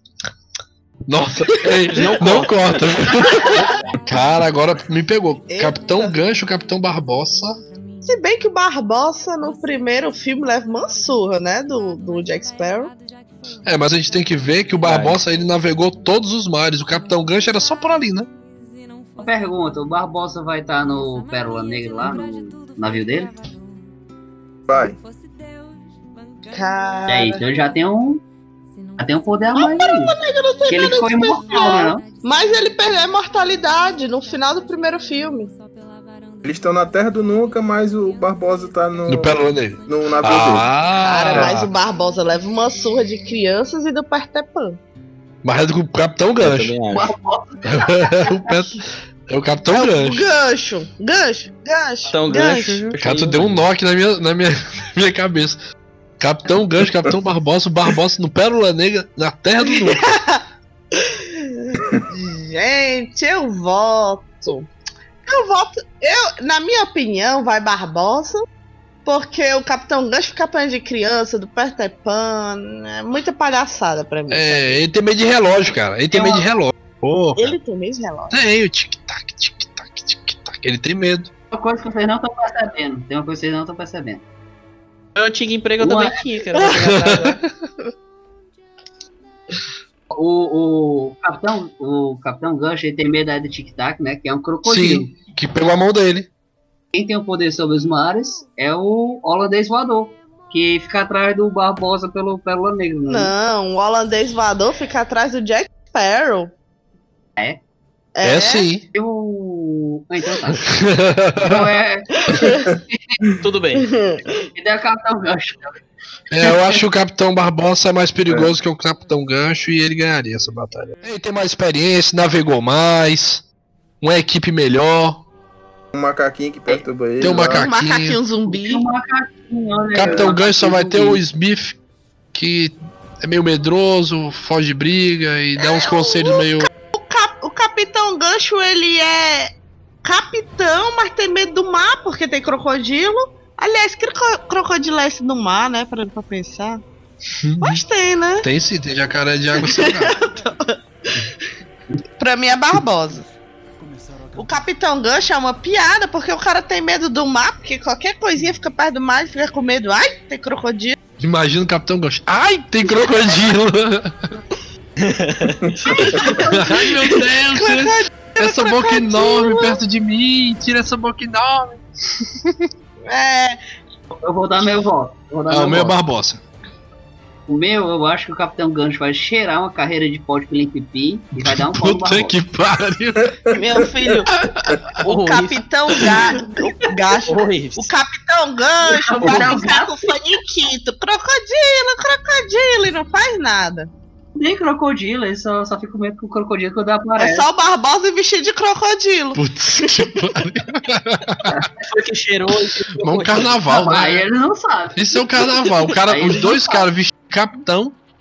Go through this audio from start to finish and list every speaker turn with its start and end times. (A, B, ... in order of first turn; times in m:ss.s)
0:01.1-0:07.6 A
0:01.9-0:02.8 B
0:05.5-0:06.2 C
0:08.0-0:12.9 C
0:13.6-0:18.3 A
0:14.8-0:15.2 B
0:19.2-0:23.3 D
0:24.7-0:25.0 E
0:26.5-0:27.4 C
0:27.1-0:28.2 D
0:29.0-0:30.2 D
0:29.5-0:35.5 C
0:30.7-0:32.0 D
0:36.4-0:39.4 E
0:39.1-0:41.7 A
0:39.9-0:40.7 E
0:41.0-0:44.8 C
0:45.4-0:46.8 A
0:46.4-0:47.1 B
0:46.9-0:48.5 D
0:47.6-0:50.2 A
0:49.7-0:52.8 C
0:52.1-0:53.6 B
0:53.0-0:55.6 A
0:56.2-1:00.0 A
0:59.6-1:00.4 C
1:00.9-1:04.7 C
1:05.2-1:08.4 C
1:09.0-1:14.8 C
1:14.3-1:17.6 A
1:16.1-1:16.4 D
1:17.4-1:18.4 C
1:18.3-1:21.3 A
1:21.5-1:24.2 D
1:25.2-1:27.4 B
1:25.8-1:26.2 D
1:26.7-1:27.5 A
1:30.1-1:35.1 D
1:34.6-1:36.3 A
1:36.9-1:43.3 D
1:43.1-1:46.5 C
1:48.2-1:48.7 C
1:48.2-1:48.9 A
1:48.9-1:50.7 D
1:50.6-1:51.7 A
1:51.4-1:53.2 D
1:52.2-1:52.6 C
1:53.4-1:53.9 B
1:53.8-1:54.5 C
1:54.5-1:55.8 D
1:56.3-2:03.4 A
1:56.4-1:56.8 D
1:58.3-1:58.5 E
2:04.0-2:05.2 A
2:05.9-2:07.7 E
2:07.2-2:08.2 A
2:07.5-2:08.8 C
2:08.4-2:11.2 D
2:09.9-2:11.8 A
2:12.3-2:16.7 A
2:15.6-2:19.5 C
2:20.0-2:26.8 C
2:27.4-2:27.8 A
2:27.6-2:28.5 C
2:28.4-2:30.2 A
2:29.5-2:31.3 C
2:32.2-2:33.2 C
2:34.3-2:41.0 C
2:41.2-2:44.2 A
2:45.0-2:45.8 B
2:45.9-2:49.8 C
2:46.3-2:52.7 A
2:53.0-2:53.6 C
2:54.1-2:56.0 D
2:55.5-2:56.4 A
2:57.5-3:02.4 D
3:01.4-3:03.4 A
3:03.5-3:04.3 C
3:04.3-3:04.8 A
3:05.0-3:13.9 C
3:05.0-3:05.6 B
3:07.3-3:07.9 B
3:08.9-3:10.0 D
3:14.4-3:17.5 D
3:17.2-3:20.2 C
3:19.3-3:21.6 A
3:21.8-3:23.6 B
3:23.0-3:24.2 A
3:23.6-3:25.1 D
3:24.9-3:28.0 A
3:26.0-3:26.9 D